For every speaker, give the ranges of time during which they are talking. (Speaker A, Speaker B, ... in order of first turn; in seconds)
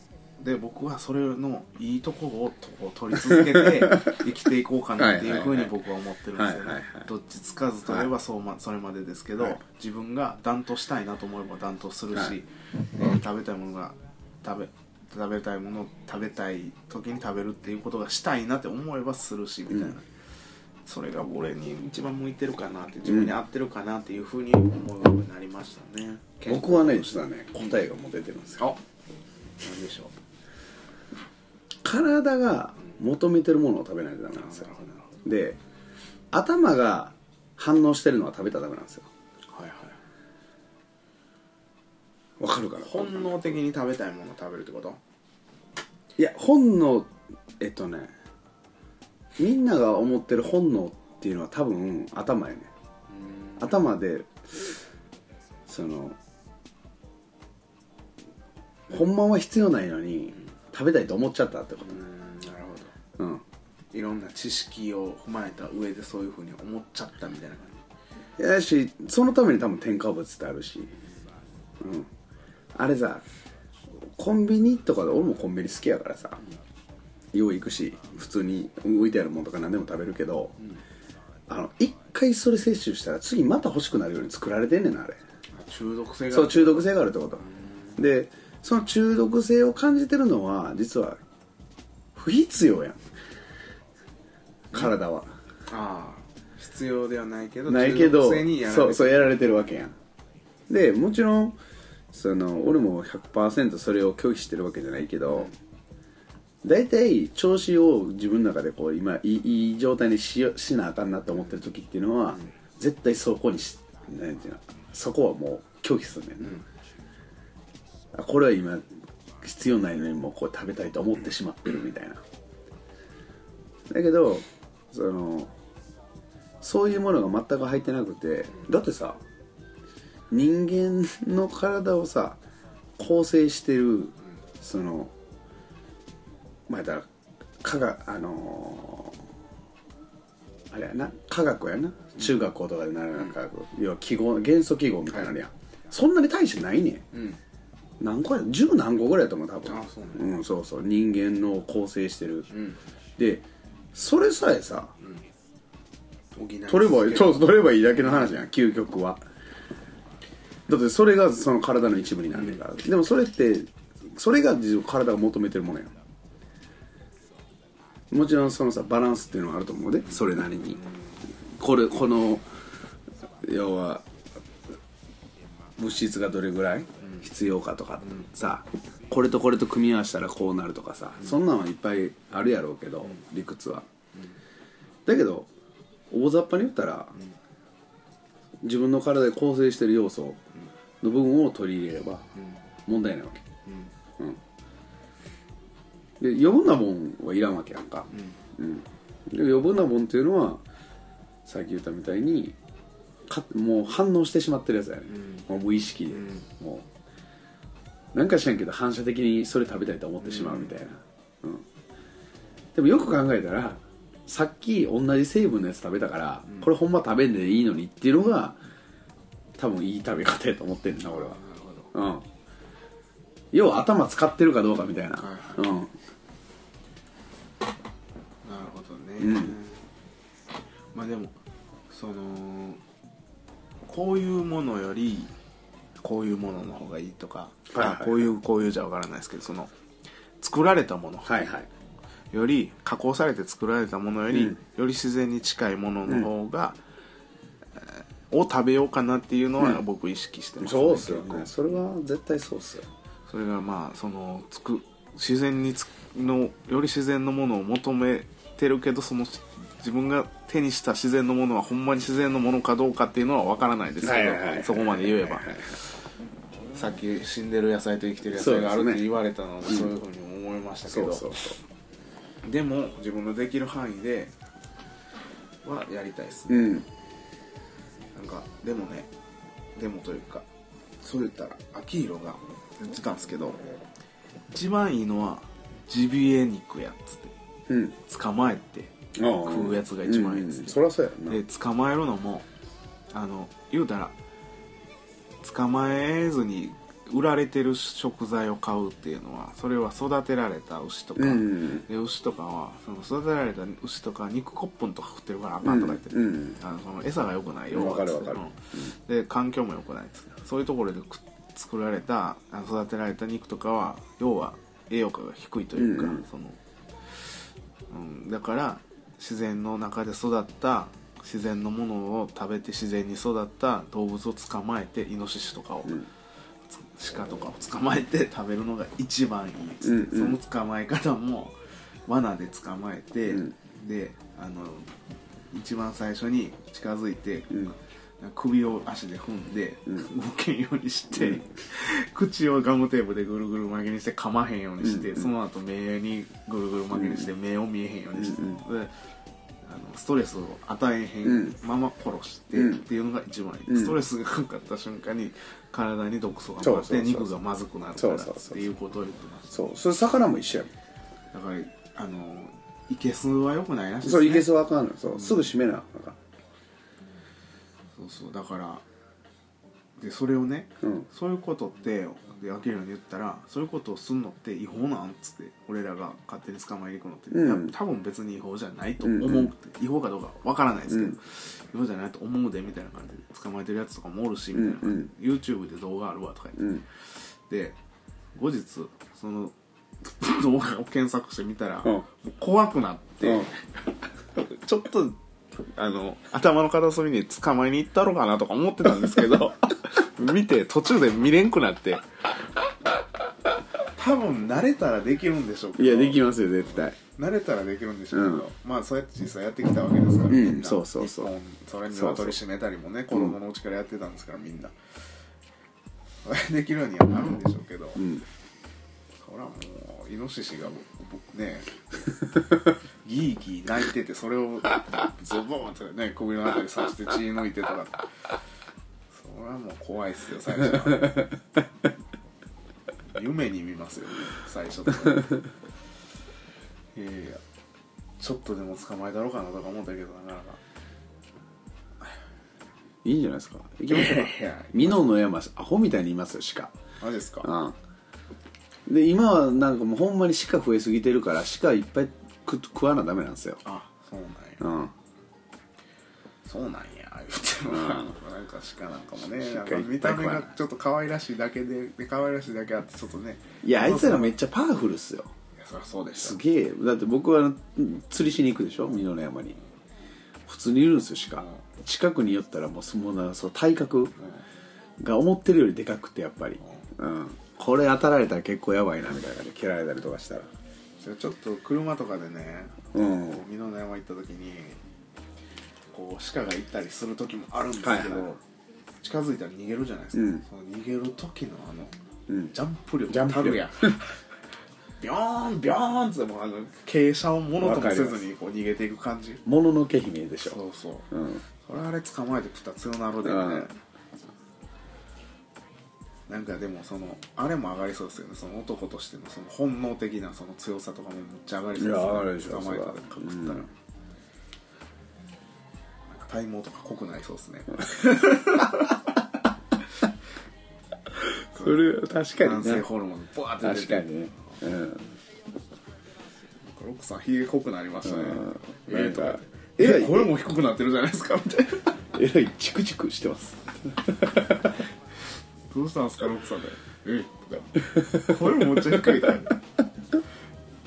Speaker A: 0.4-20.1, 20.9-27.8, 29.6-30.1, 34.3-35.1, 39.5-40.0, 42.8-45.0, 53.1-53.9, 61.8-62.9, 63.9-67.8, 85.5-88.0, 95.7-99.3, 147.1-147.4, 149.7-150.3, 152.5-152.8, 156.3-158.4, 162.3-162.6, 170.8-171.2, 178.0-178.3, 193.7-193.9, 198.1-198.4, 205.1-205.4, 206.1-206.4, 210.2-210.7, 221.1-221.9, 225.2-225.6, 228.4-229.8, 230.9-231.3, 231.9-232.8, 233.9-235.3, 236.0-239.7, 240.4-241.5, 242.3-246.8, 247.8-251.5, 253.3-265.9, 266.7-271.4, 272.4-274.3, 275.6-276.8, 278.1-279.1, 279.8-280.4, 281.0-283.6, 284.5-287.3, 288.1-292.5, 293.1-294.1, 295.4-316.6, 317.9-326.1, 326.7-331.6, 332.1-334.9, 335.5-348.9, 349.6-359.6, 361.3-364.5, 365.1-365.4, 368.0-368.8, 370.0-386.8, 387.5-387.8, 388.3-393.6, 394.3-402.0, 403.9-414.7, 416.2-418.1, 419.2-422.2, 423.0-428.1, 429.1-431.3, 433.1-435.4, 436.9-437.4, 438.2-440.6, 443.9-445.1, 447.0-447.5, 453.6-454.6, 456.4-464.3, 465.6-466.4, 471.4-471.6, 476.6-476.9, 481.0-484.8, 485.9-488.4, 489.0-491.9, 492.5-494.1, 495.0-499.4, 500.4-503.7, 506.3-513.7, 516.1-519.0, 521.5-524.1, 526.6-531.9, 535.7-539.6
Speaker B: 3.3-4.2, 5.0-5.7, 6.3-7.1, 23.0-23.3, 26.4-28.6, 31.8-34.7, 35.2-35.6, 36.3-39.1, 42.4-43.6, 46.2-48.1, 49.4-52.7, 53.6-54.7, 55.7-56.2, 58.9-62.0, 63.2-63.4, 68.4-70.9, 71.8-72.1, 72.7-73.2, 74.0-76.4, 77.3-80.6, 81.5-85.2, 86.3-87.5, 88.0-91.2, 92.1-93.0, 94.7-95.3, 97.7-100.0, 100.7-101.6, 102.1-105.5, 106.6-116.6, 118.1-118.8, 119.4-122.2, 123.9-125.5, 126.6-129.2, 130.3-132.4, 133.0-135.1, 136.7-137.1, 137.6-139.2, 140.7-147.0, 148.0-152.5, 153.2-154.9, 156.7-159.2, 160.7-165.9, 168.1-170.8, 171.4-172.5, 173.4-174.1, 175.8-183.8, 185.1-185.5, 186.1-187.1, 188.6-190.4, 191.0-192.2, 192.8-193.4, 196.2-200.6, 201.4-202.6, 203.3-206.9, 208.1-211.7, 212.7-218.6, 219.6-221.4, 221.9-222.2, 223.5-225.9, 229.2-229.6, 237.7-238.3, 241.2-241.7, 244.3-244.6, 250.6-252.8, 264.0-265.8, 268.3-269.0, 270.9-271.6, 276.5-276.9, 287.7-288.0, 289.1-291.4, 301.2-301.9, 305.6-306.6, 307.7-308.9, 315.8-316.2, 329.8-330.4, 341.2-341.4, 344.8-345.3, 346.9-347.3, 348.1-348.6, 351.2-351.5, 352.5-352.8, 353.7-353.9, 356.6-357.3, 358.0-358.7, 359.5-360.7, 364.0-366.2, 377.3-377.7, 379.0-379.5, 380.9-381.2, 384.5-385.1, 386.6-386.8, 405.8-407.0, 408.1-408.4, 410.3-411.3, 411.9-412.4, 417.9-418.2, 443.0-446.7, 447.4-447.8, 448.9-453.6, 454.6-454.9, 457.7-458.1, 459.3-460.5, 463.6-465.3, 466.1-469.6, 470.4-474.1, 475.0-480.5, 482.9-483.4, 487.8-488.3, 490.1-490.4, 492.3-492.5, 493.1-494.0, 497.6-498.2, 499.4-500.6, 501.1-501.4, 503.2-503.7, 511.8-513.7, 521.5-522.9, 523.6-525.0, 528.0-530.3, 532.1-534.8